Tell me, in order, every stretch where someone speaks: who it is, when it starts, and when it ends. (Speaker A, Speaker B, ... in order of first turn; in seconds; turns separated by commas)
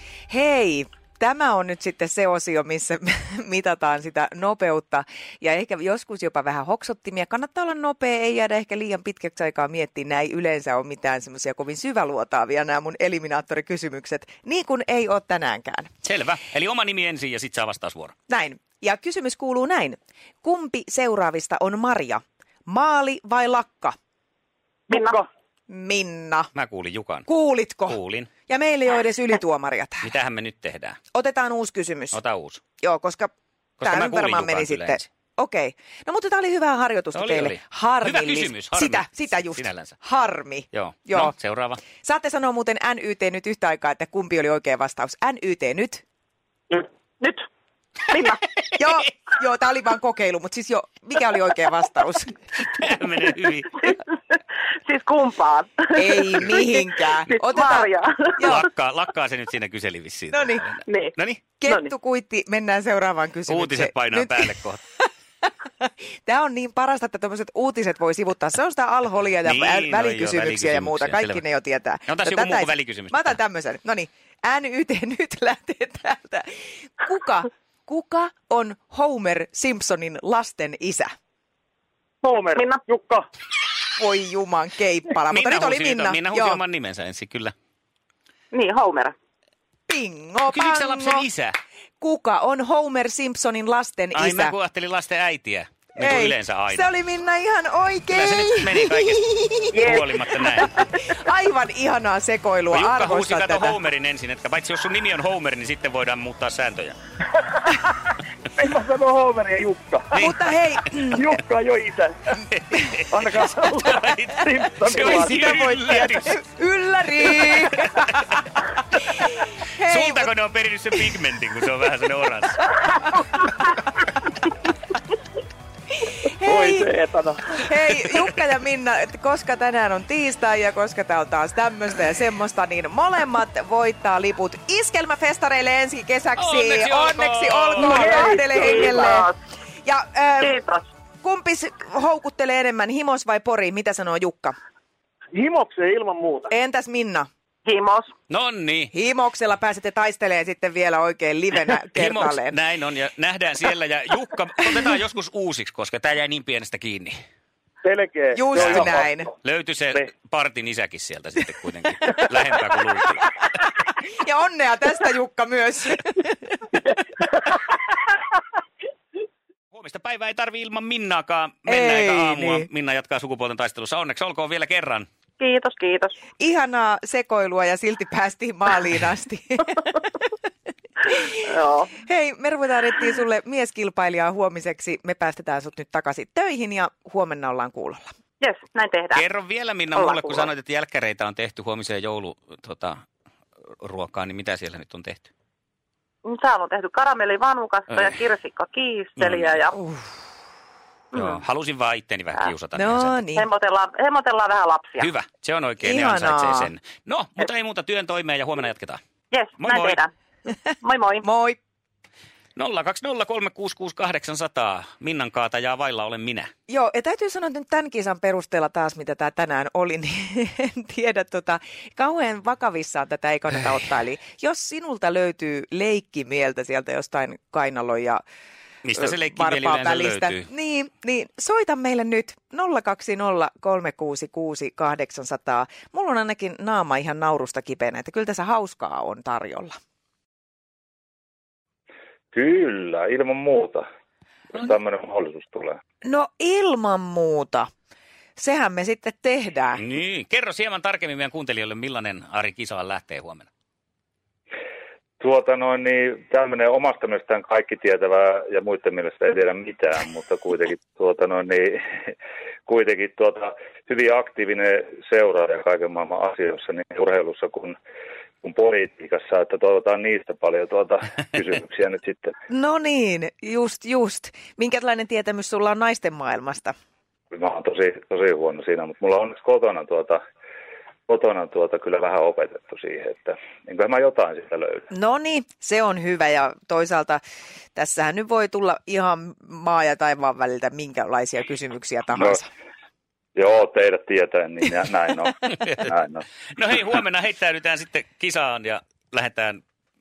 Speaker A: 0.3-15.9, Speaker B: 16.0-18.1, Speaker A: 18.3-23.9, Speaker C: 24.9-25.2, Speaker D: 24.9-25.3, Speaker A: 25.7-26.5, Speaker B: 26.6-27.3, Speaker A: 27.3-30.1, Speaker B: 27.9-28.3, Speaker B: 30.0-31.0, Speaker A: 31.1-32.2, Speaker B: 32.1-32.6, Speaker A: 32.8-33.3, Speaker B: 33.8-35.0, Speaker A: 33.8-41.4, Speaker B: 37.1-40.0, Speaker B: 40.7-41.8, Speaker A: 42.0-46.0, Speaker C: 46.7-47.5, Speaker C: 48.1-48.5, Speaker A: 48.7-52.4, Speaker B: 52.6-54.0, Speaker C: 53.9-58.5, Speaker A: 55.9-58.7, Speaker B: 58.4-61.4, Speaker A: 60.3-60.6, Speaker C: 60.9-61.9, Speaker A: 61.6-64.5, Speaker B: 63.5-64.8, Speaker A: 65.4-81.1, Speaker B: 69.4-71.4, Speaker B: 72.1-73.4, Speaker D: 82.2-83.3, Speaker C: 82.6-82.8, Speaker A: 84.0-86.6, Speaker B: 85.3-87.5, Speaker C: 88.5-89.1, Speaker A: 89.9-91.3, Speaker B: 90.5-91.6, Speaker A: 92.0-94.5, Speaker B: 94.1-96.9, Speaker A: 96.0-103.8, Speaker B: 98.1-100.8, Speaker B: 102.7-107.0, Speaker D: 108.6-110.2, Speaker B: 110.1-110.4, Speaker A: 110.2-111.3, Speaker B: 110.9-111.4, Speaker D: 111.2-112.2, Speaker B: 112.5-116.4, Speaker D: 113.1-115.6, Speaker A: 114.9-118.3, Speaker B: 117.2-122.7, Speaker A: 119.8-120.3, Speaker A: 126.4-126.9, Speaker D: 126.4-127.7, Speaker A: 127.6-139.2, Speaker B: 136.4-138.0, Speaker D: 137.8-139.1, Speaker C: 138.0-139.3, Speaker A: 139.8-140.6, Speaker C: 140.4-140.8, Speaker A: 141.2-144.6, Speaker D: 145.3-146.5, Speaker A: 146.5-147.3, Speaker C: 147.7-148.1, Speaker B: 148.3-148.9, Speaker A: 148.9-152.6, Speaker B: 151.9-157.2, Speaker D: 157.8-159.3, Speaker A: 158.3-159.3, Speaker B: 158.6-163.3, Speaker A: 164.2-166.6, Speaker B: 169.7-175.1, Speaker A: 171.7-172.7, Speaker C: 175.4-176.2, Speaker A: 176.4-180.3, Speaker C: 181.3-182.0, Speaker A: 182.0-188.1, Speaker C: 188.4-189.3, Speaker B: 189.1-193.0, Speaker C: 189.9-190.5, Speaker B: 193.8-195.3, Speaker C: 196.2-199.8, Speaker B: 197.9-198.2, Speaker B: 199.2-199.6, Speaker A: 199.8-200.1, Speaker C: 201.1-201.4, Speaker B: 201.1-203.2, Speaker A: 202.7-203.5, Speaker C: 203.4-205.1, Speaker B: 205.0-209.0, Speaker A: 205.8-206.7, Speaker C: 209.3-210.1, Speaker B: 209.6-210.0, Speaker C: 210.8-211.3, Speaker A: 211.2-211.6, Speaker B: 212.6-216.5, Speaker A: 216.7-228.2, Speaker B: 228.8-230.5, Speaker A: 228.9-239.8, Speaker E: 242.3-243.8, Speaker E: 244.5-245.8, Speaker A: 246.0-247.7, Speaker A: 248.4-249.8, Speaker B: 249.8-253.5, Speaker E: 255.2-262.1, Speaker E: 262.7-267.8, Speaker E: 268.4-272.4, Speaker A: 272.5-276.7, Speaker E: 277.3-280.2, Speaker E: 281.1-284.9, Speaker A: 284.9-287.2, Speaker A: 287.8-292.5, Speaker E: 293.4-296.2, Speaker B: 295.5-295.9, Speaker B: 296.5-299.6